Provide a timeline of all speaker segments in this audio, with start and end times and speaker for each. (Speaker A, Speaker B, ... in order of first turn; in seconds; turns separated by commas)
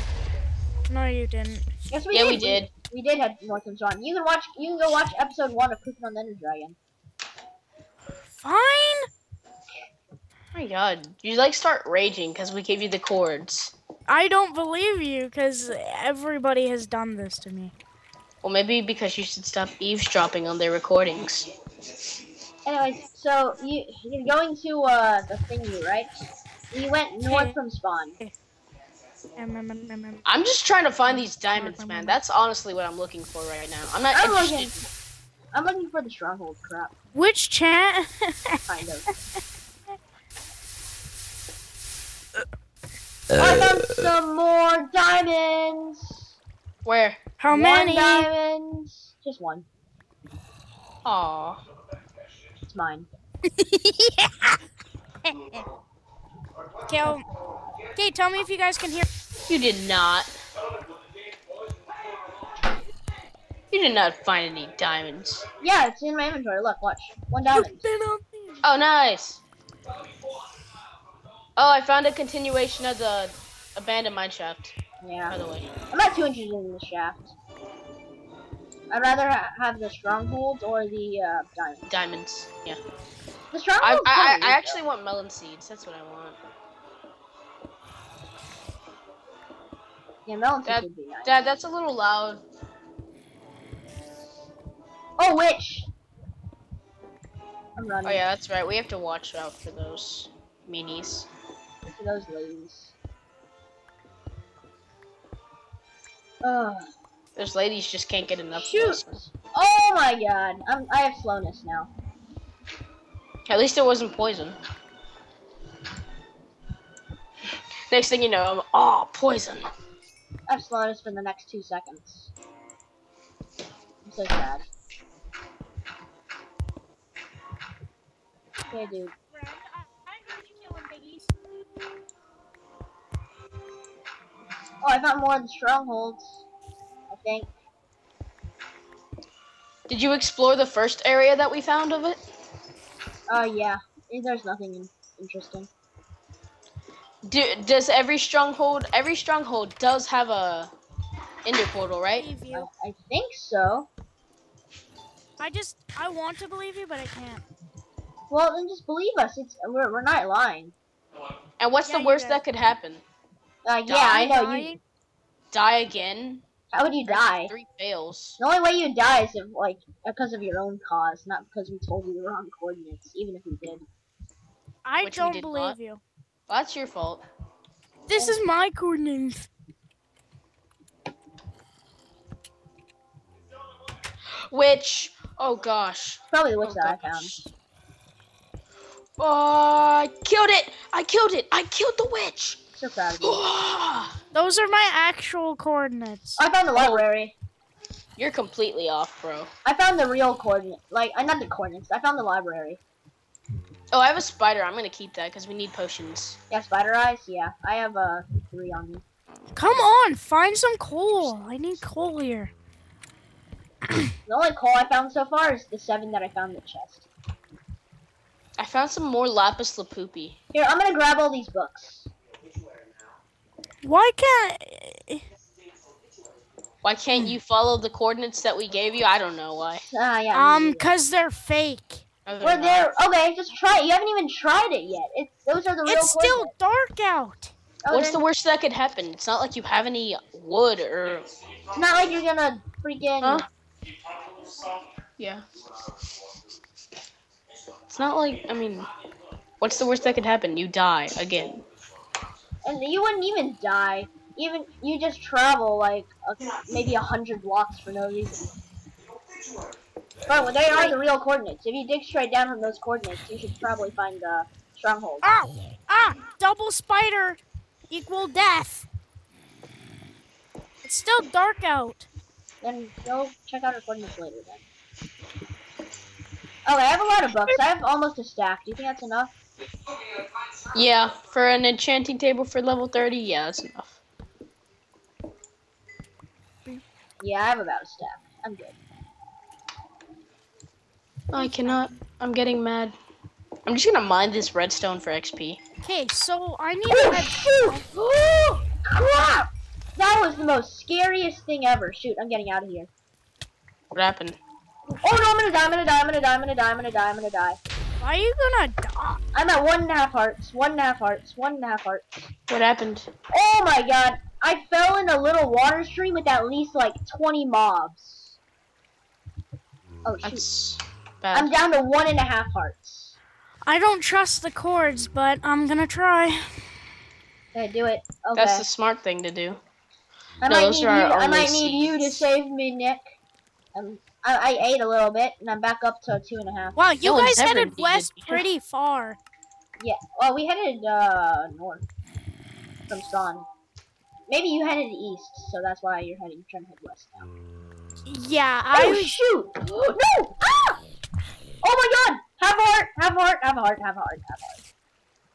Speaker A: 0.9-1.7, Speaker B: 1.9-6.8, Speaker C: 2.1-2.7, Speaker A: 8.4-9.1, Speaker C: 10.5-13.7, Speaker A: 14.1-17.7, Speaker C: 18.4-21.5, Speaker B: 22.7-26.1, Speaker B: 26.7-28.2, Speaker A: 27.3-27.6, Speaker A: 29.4-30.2, Speaker C: 30.2-34.8, Speaker A: 31.3-32.2, Speaker B: 34.1-34.8, Speaker B: 35.5-36.9, Speaker A: 37.1-38.6, Speaker B: 38.7-39.1, Speaker B: 43.3-46.3, Speaker C: 46.9-47.2, Speaker A: 47.4-48.3, Speaker B: 47.5-49.7, Speaker C: 51.0-51.6, Speaker B: 52.7-53.1, Speaker A: 53.4-54.6, Speaker A: 55.2-55.6, Speaker A: 56.9-57.2, Speaker A: 58.0-59.1, Speaker C: 59.5-60.3, Speaker C: 63.7-65.5, Speaker B: 65.6-67.9, Speaker A: 67.5-68.6, Speaker C: 68.6-69.4, Speaker C: 71.6-74.8, Speaker B: 75.0-75.3, Speaker C: 75.3-75.7, Speaker B: 75.9-77.3, Speaker B: 78.9-81.9, Speaker C: 81.9-82.8, Speaker B: 83.5-84.8, Speaker C: 83.8-86.4, Speaker B: 90.2-91.4, Speaker C: 90.7-92.4, Speaker B: 95.2-95.9, Speaker B: 97.8-98.2, Speaker C: 98.0-101.3, Speaker B: 101.9-102.9, Speaker B: 106.4-106.9, Speaker C: 107.4-109.2, Speaker B: 108.5-111.9, Speaker C: 113.5-114.6, Speaker C: 117.9-119.7, Speaker B: 120.5-122.3, Speaker B: 124.0-124.6, Speaker B: 128.7-129.1, Speaker A: 129.3-131.3, Speaker B: 134.8-136.4, Speaker B: 137.1-137.5, Speaker C: 139.9-142.2, Speaker B: 143.3-145.7, Speaker C: 147.2-150.7, Speaker C: 151.4-152.3, Speaker A: 152.2-152.7, Speaker B: 152.5-153.9, Speaker A: 155.4-157.4, Speaker B: 158.3-160.7, Speaker C: 161.6-163.0, Speaker A: 161.9-162.4, Speaker B: 163.7-164.8, Speaker C: 163.9-164.4, Speaker A: 164.3-164.8, Speaker C: 165.5-166.4, Speaker B: 166.7-167.5, Speaker C: 167.1-168.4, Speaker B: 168.4-173.8, Speaker A: 174.8-176.0, Speaker C: 175.0-175.8, Speaker C: 176.5-177.2, Speaker A: 178.1-179.5, Speaker B: 178.1-178.4, Speaker C: 184.3-187.5, Speaker B: 186.3-187.3, Speaker C: 189.2-192.6, Speaker B: 192.8-193.4, Speaker C: 193.2-194.2, Speaker A: 194.3-196.4, Speaker B: 196.4-197.3, Speaker C: 196.8-197.0, Speaker C: 198.2-199.5, Speaker B: 199.7-202.8, Speaker C: 203.9-206.4, Speaker B: 206.5-209.0, Speaker C: 209.4-209.8, Speaker A: 209.5-212.5, Speaker B: 214.3-217.1, Speaker C: 218.6-220.4, Speaker B: 220.5-222.1, Speaker A: 223.8-225.2, Speaker C: 226.8-229.8, Speaker B: 229.9-230.9, Speaker A: 230.3-232.0, Speaker C: 232.3-232.9, Speaker B: 232.4-236.5, Speaker A: 235.9-237.5, Speaker B: 237.8-238.2, Speaker C: 237.9-241.3, Speaker B: 241.8-243.5, Speaker C: 243.2-243.5, Speaker C: 245.2-245.4, Speaker C: 247.9-248.9, Speaker C: 249.6-251.7, Speaker B: 252.6-258.6, Speaker B: 260.3-265.4, Speaker A: 265.2-268.9, Speaker A: 270.8-272.1, Speaker B: 272.6-274.6, Speaker B: 276.7-279.3, Speaker C: 280.7-284.0, Speaker B: 287.2-288.8, Speaker C: 291.3-292.9, Speaker A: 291.5-291.8, Speaker C: 293.6-295.6, Speaker A: 295.8-297.9, Speaker B: 296.9-302.9, Speaker C: 303.9-304.4, Speaker B: 305.0-307.6, Speaker A: 308.0-309.2, Speaker B: 309.3-312.3, Speaker C: 312.5-313.1, Speaker B: 313.3-318.4, Speaker B: 320.1-320.4, Speaker C: 320.2-321.5, Speaker B: 321.3-323.2, Speaker A: 323.7-326.5, Speaker B: 327.6-328.6, Speaker C: 328.4-329.6, Speaker B: 330.4-333.0, Speaker C: 330.4-332.2, Speaker B: 333.7-336.8, Speaker A: 336.8-339.2, Speaker C: 337.0-338.4, Speaker B: 339.8-341.9, Speaker B: 342.9-343.4, Speaker B: 344.3-347.3, Speaker A: 348.1-349.2, Speaker B: 348.7-350.8, Speaker B: 351.6-354.6